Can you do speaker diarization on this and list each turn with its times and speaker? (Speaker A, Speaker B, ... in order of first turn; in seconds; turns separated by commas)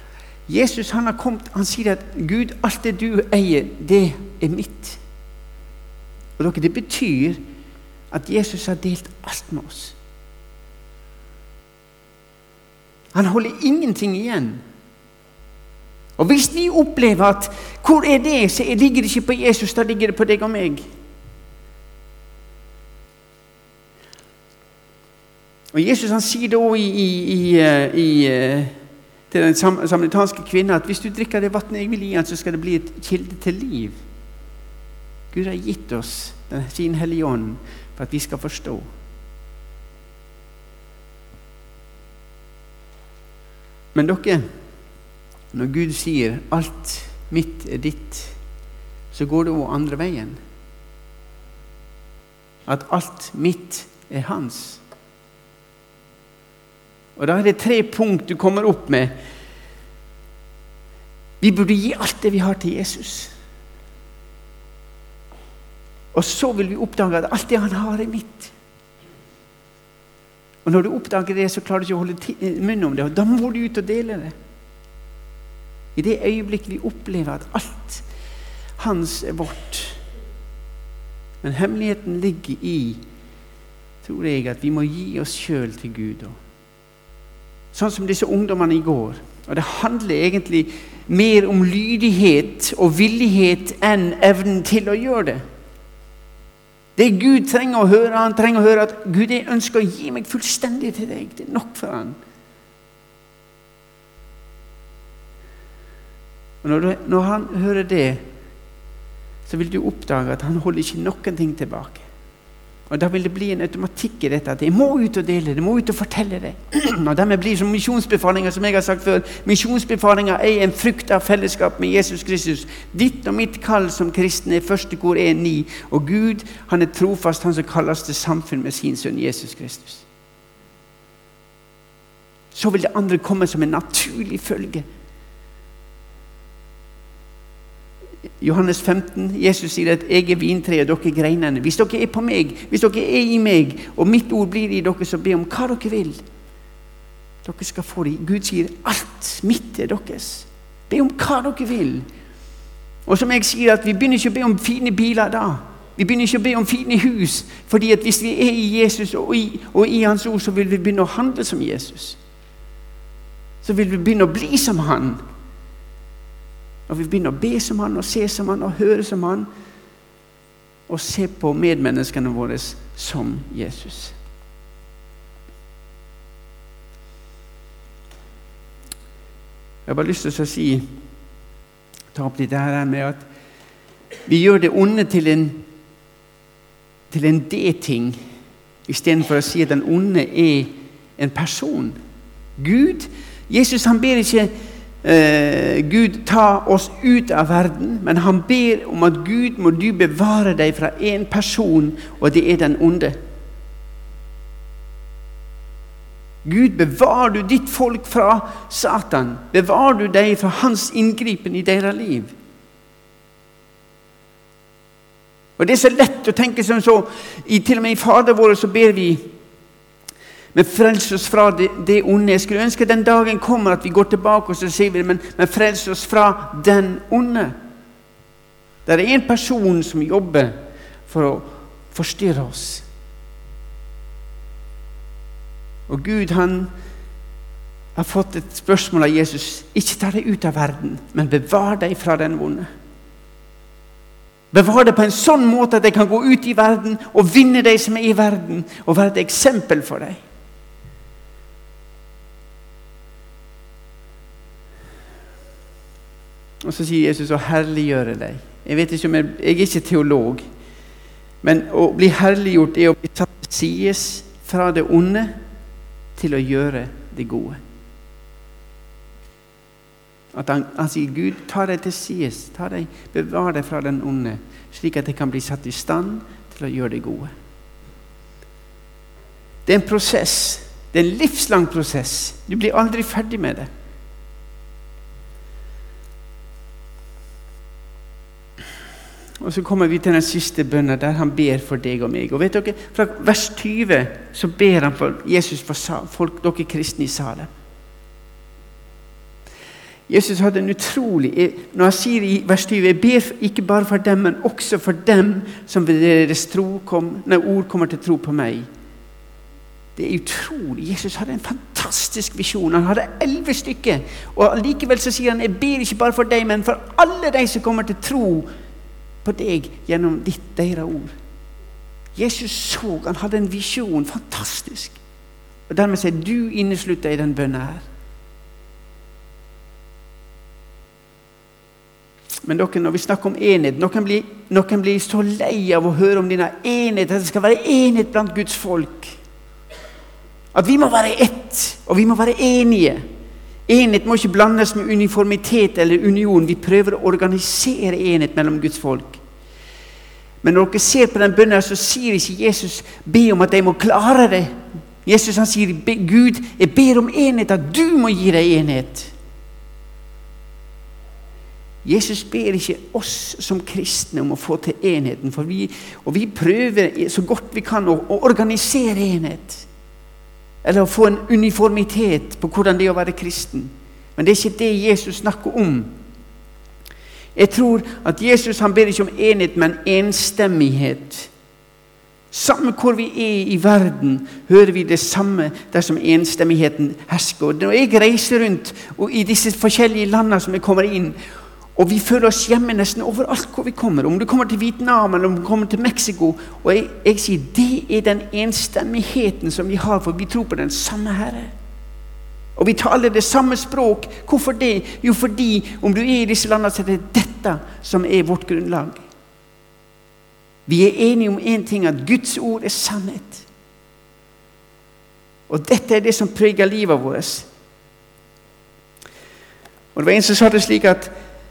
Speaker A: 0.5-5.0, Speaker A: 6.4-7.4, Speaker A: 8.1-10.0, Speaker A: 13.1-14.6, Speaker A: 16.2-20.9, Speaker A: 25.7-28.8, Speaker A: 29.3-34.0, Speaker A: 35.3-38.9, Speaker A: 43.9-44.5, Speaker A: 45.5-48.4, Speaker A: 49.1-50.4, Speaker A: 52.7-54.8, Speaker A: 57.1-59.1, Speaker A: 61.4-63.3, Speaker A: 66.1-68.5, Speaker A: 70.6-74.3, Speaker A: 76.0-78.0, Speaker A: 78.8-80.0, Speaker A: 81.4-83.0, Speaker A: 84.0-86.4, Speaker A: 87.7-95.4, Speaker A: 97.0-102.2, Speaker A: 106.6-108.2, Speaker A: 109.5-112.1, Speaker A: 112.9-130.1, Speaker A: 132.5-134.9, Speaker A: 138.4-146.2, Speaker A: 147.4-152.1, Speaker A: 153.1-162.2, Speaker A: 163.6-165.2, Speaker A: 166.9-169.5, Speaker A: 170.9-174.2, Speaker A: 179.9-180.9, Speaker A: 182.1-183.3, Speaker A: 184.3-185.6, Speaker A: 187.1-188.2, Speaker A: 188.9-192.0, Speaker A: 192.6-194.5, Speaker A: 195.0-203.2, Speaker A: 206.4-212.3, Speaker A: 215.6-219.3, Speaker A: 220.5-227.6, Speaker A: 228.9-232.9, Speaker A: 235.9-236.7, Speaker A: 237.9-242.7, Speaker A: 244.5-250.2, Speaker A: 256.6-260.4, Speaker A: 261.4-265.4, Speaker A: 266.1-267.6, Speaker A: 270.3-277.3, Speaker A: 279.6-283.7, Speaker A: 289.4-297.5, Speaker A: 300.1-308.7, Speaker A: 309.9-318.5, Speaker A: 319.2-321.1, Speaker A: 322.1-325.0, Speaker A: 325.7-327.9, Speaker A: 332.4-339.2, Speaker A: 340.5-343.0, Speaker A: 343.7-349.2, Speaker A: 350.4-359.1, Speaker A: 361.8-369.7, Speaker A: 370.6-375.9, Speaker A: 377.4-381.3, Speaker A: 382.3-391.2, Speaker A: 391.8-401.5, Speaker A: 402.6-409.0, Speaker A: 410.6-413.4, Speaker A: 415.5-417.5, Speaker A: 419.9-421.1